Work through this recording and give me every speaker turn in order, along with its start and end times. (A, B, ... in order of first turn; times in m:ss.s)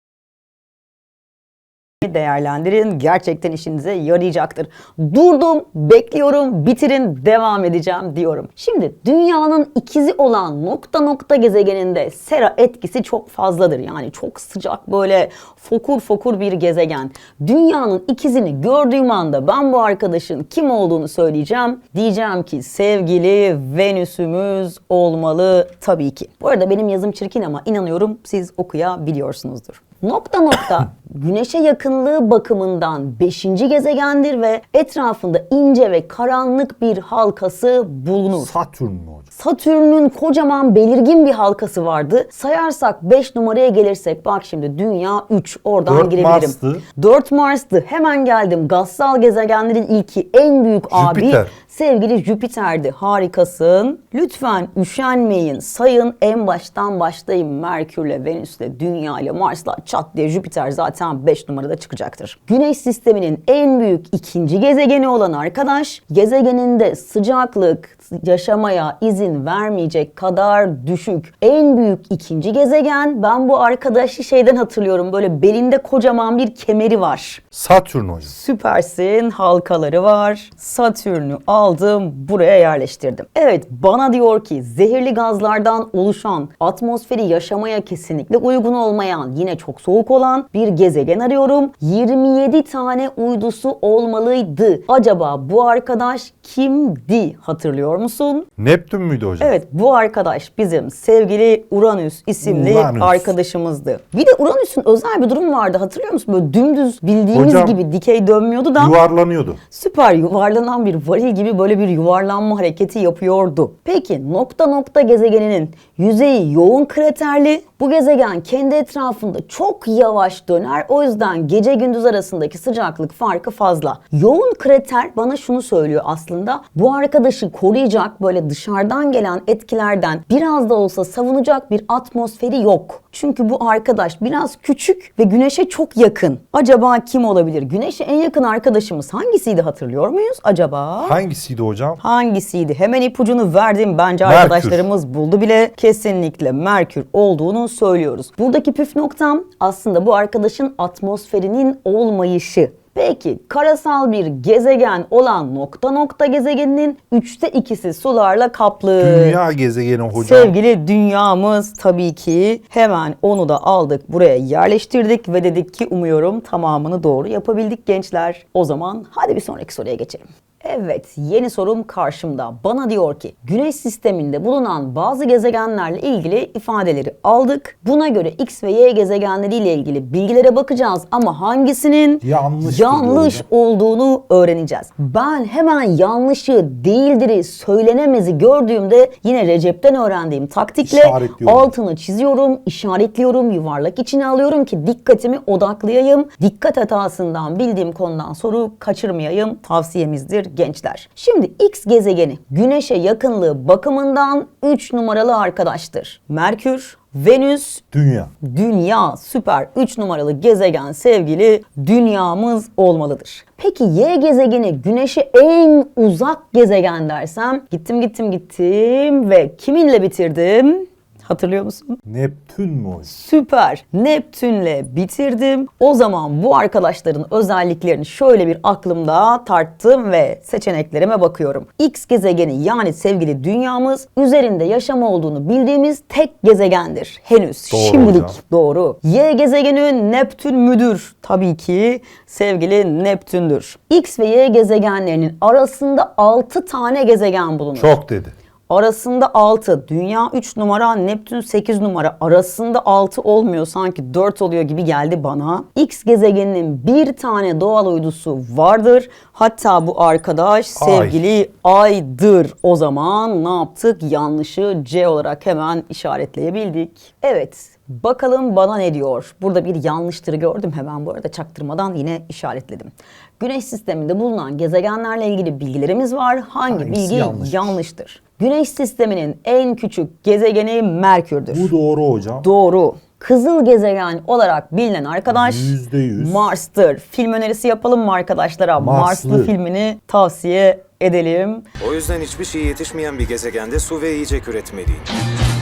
0:02.0-0:38.5 A
0:38.3-0:39.3 B
0:39.3-1:17.4 A
0:45.8-0:46.8 B
0:50.9-0:51.5 B
1:17.5-1:18.3 B
1:18.2-1:38.5 A
1:38.6-1:39.6 B
1:39.4-1:49.0 A
1:42.4-1:43.3 B
1:47.3-1:47.8 B
1:48.8-1:49.6 B
1:49.7-2:21.2 A
2:21.0-2:22.0 B
2:22.0-2:39.4 A
2:24.2-2:24.9 B
2:39.0-2:40.5 B
2:40.1-3:27.8 A
3:02.2-3:03.4 B
3:10.8-3:11.7 B
3:27.9-3:28.3 B
3:28.4-3:42.0 A
3:42.0-3:43.1 B
3:43.0-4:08.0 A
3:57.7-3:58.4 B
4:07.7-4:08.3 B
4:08.7-4:41.7 A
4:20.8-4:21.2 B
4:36.7-4:37.8 B
4:41.5-4:42.4 B
4:42.4-4:51.6 A
4:45.3-4:46.5 B
4:48.8-4:49.5 B
4:51.8-4:55.1 C